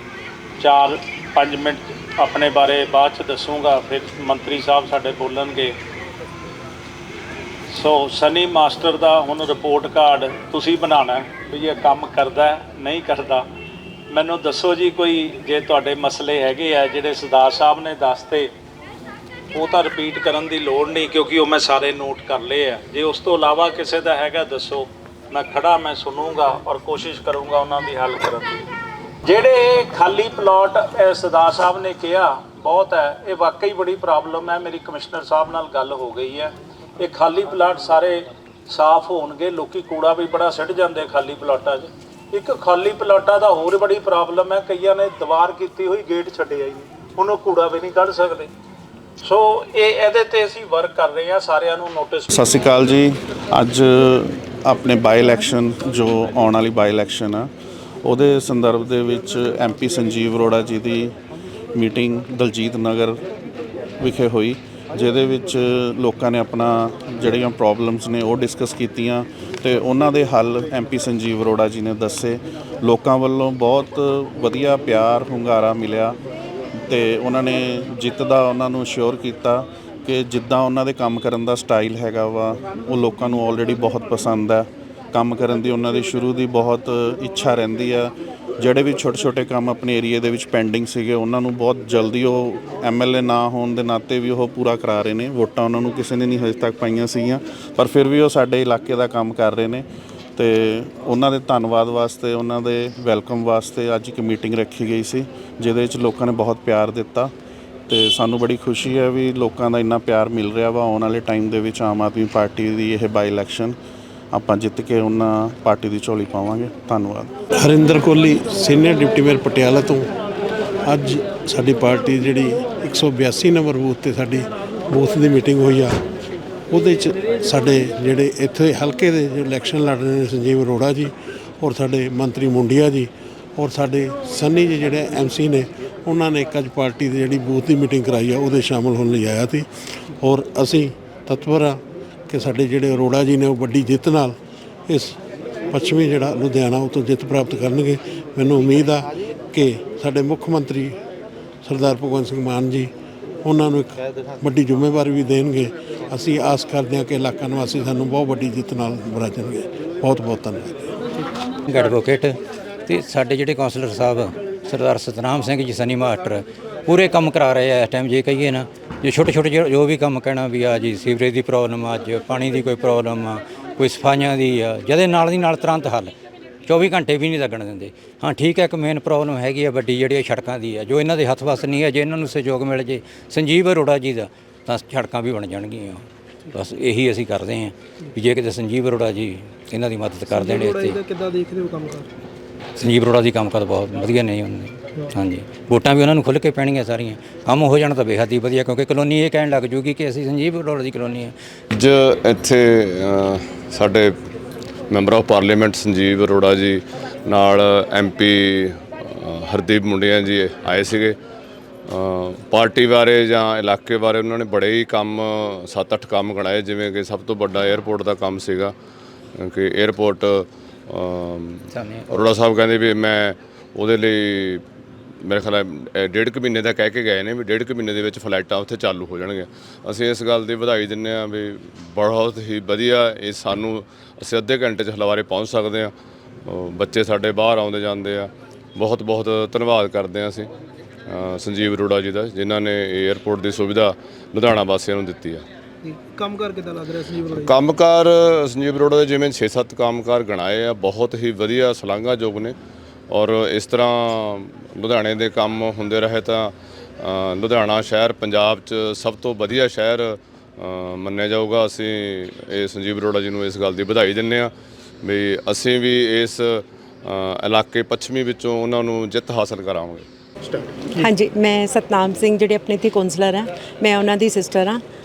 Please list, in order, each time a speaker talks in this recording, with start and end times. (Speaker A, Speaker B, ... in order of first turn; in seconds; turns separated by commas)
Speaker A: 0.6-5.7, Speaker A: 7.7-13.4, Speaker A: 14.1-18.5, Speaker A: 19.5-28.7, Speaker A: 29.2-48.5, Speaker A: 49.2-52.5, Speaker B: 52.3-57.5, Speaker B: 58.0-61.1, Speaker B: 61.7-63.2, Speaker B: 64.0-76.2, Speaker B: 76.8-107.3, Speaker B: 107.9-113.8, Speaker B: 114.3-117.3, Speaker C: 117.6-120.1, Speaker C: 120.8-125.9, Speaker C: 126.7-139.7, Speaker C: 140.2-144.4, Speaker C: 144.9-145.2, Speaker C: 145.7-151.0, Speaker C: 151.6-152.9, Speaker C: 153.4-160.9, Speaker D: 161.7-162.3, Speaker D: 162.9-176.1, Speaker D: 176.7-186.0, Speaker D: 186.6-191.0, Speaker E: 190.3-192.1, Speaker D: 192.8-201.3, Speaker F: 201.7-204.1, Speaker F: 204.9-211.2, Speaker F: 211.9-218.7, Speaker F: 219.3-224.6, Speaker D: 221.8-222.0, Speaker F: 225.2-235.9, Speaker F: 236.4-240.5, Speaker F: 241.1-245.4, Speaker E: 245.8-247.5, Speaker F: 247.3-252.6, Speaker F: 253.1-264.5, Speaker F: 265.0-270.1, Speaker G: 270.9-274.8